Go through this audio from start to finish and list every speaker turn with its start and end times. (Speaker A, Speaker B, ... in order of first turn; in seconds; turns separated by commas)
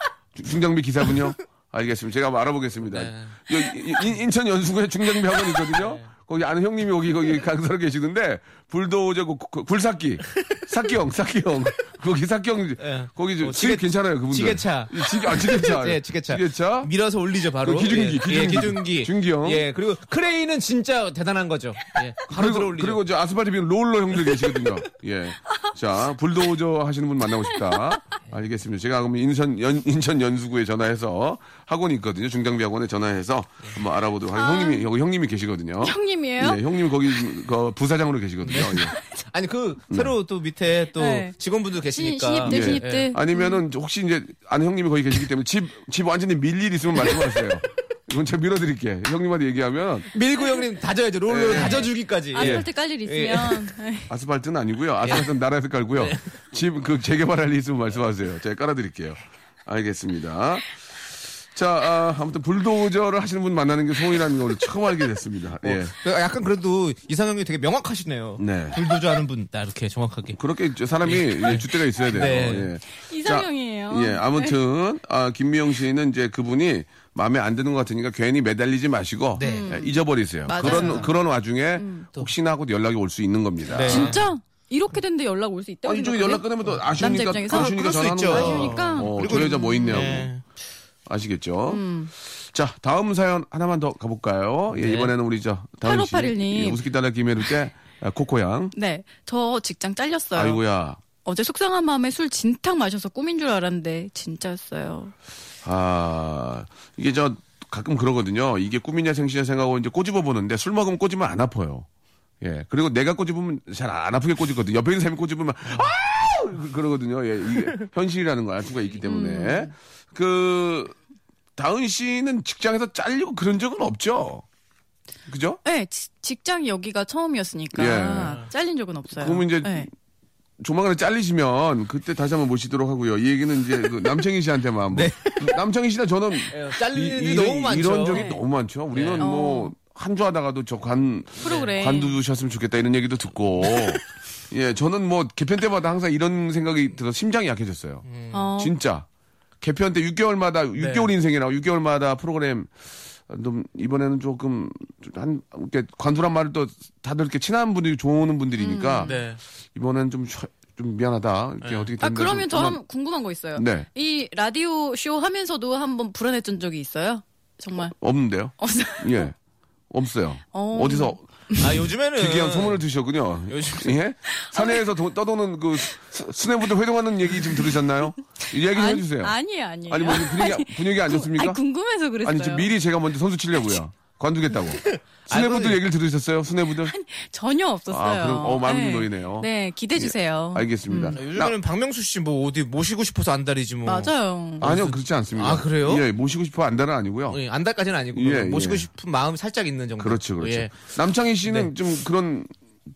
Speaker A: 0.3-16.9, Speaker B: 2.9-3.4, Speaker B: 5.7-6.1, Speaker B: 12.8-23.0, Speaker A: 17.6-19.6, Speaker A: 22.3-38.9, Speaker C: 34.3-34.9, Speaker C: 35.8-36.6, Speaker B: 38.4-43.1, Speaker C: 41.0-41.4, Speaker C: 41.9-43.6, Speaker A: 42.5-50.1, Speaker B: 50.1-53.7, Speaker A: 51.3-52.7, Speaker C: 51.5-54.1, Speaker A: 54.1-65.9, Speaker B: 55.0-55.3, Speaker B: 56.0-56.3, Speaker B: 65.6-70.4, Speaker A: 68.4-68.8, Speaker A: 70.3-84.2, Speaker B: 71.0-72.7, Speaker C: 72.9-74.6, Speaker B: 79.4-79.7, Speaker C: 79.4-81.1, Speaker B: 80.5-81.1, Speaker C: 81.8-82.1, Speaker B: 83.7-84.2, Speaker C: 83.8-90.2, Speaker A: 85.8-90.3, Speaker B: 86.7-90.4, Speaker A: 91.1-98.7, Speaker C: 91.7-92.1, Speaker B: 94.7-95.1, Speaker C: 95.8-96.8, Speaker C: 98.7-100.6, Speaker A: 100.4-101.0, Speaker C: 101.2-105.1, Speaker A: 105.6-111.9, Speaker A: 112.4-121.0, Speaker C: 119.0-119.7, Speaker A: 121.6-124.5, Speaker A: 125.3-125.6, Speaker C: 125.6-129.9, Speaker A: 127.7-128.4, Speaker B: 128.1-128.5, Speaker A: 129.2-129.9, Speaker A: 130.6-148.1, Speaker B: 134.9-135.6, Speaker B: 136.5-138.3, Speaker C: 138.1-138.4, Speaker B: 138.9-139.3, Speaker C: 139.2-139.7, Speaker C: 141.4-142.2, Speaker B: 141.4-141.9, Speaker B: 148.1-148.4, Speaker C: 148.3-148.8, Speaker A: 148.6-149.1, Speaker A: 149.6-152.7, Speaker B: 150.8-151.1, Speaker A: 153.3-159.2, Speaker C: 158.6-159.2, Speaker B: 159.1-159.4, Speaker A: 159.8-162.8, Speaker B: 161.6-161.9, Speaker C: 162.0-167.9, Speaker A: 163.6-163.9, Speaker A: 168.0-169.3, Speaker C: 168.6-169.3, Speaker A: 169.9-171.2, Speaker C: 170.5-171.8, Speaker B: 171.6-172.8, Speaker A: 172.2-179.3, Speaker B: 173.5-174.0, Speaker C: 174.3-174.9, Speaker C: 178.6-182.7, Speaker A: 179.9-181.6, Speaker A: 182.2-186.9, Speaker B: 184.9-185.8, Speaker C: 186.9-191.2, Speaker A: 187.9-191.6, Speaker B: 191.1-196.1, Speaker C: 193.8-194.7, Speaker A: 194.6-197.4, Speaker B: 197.3-200.9, Speaker A: 198.1-198.9, Speaker A: 200.0-202.5, Speaker B: 201.4-201.7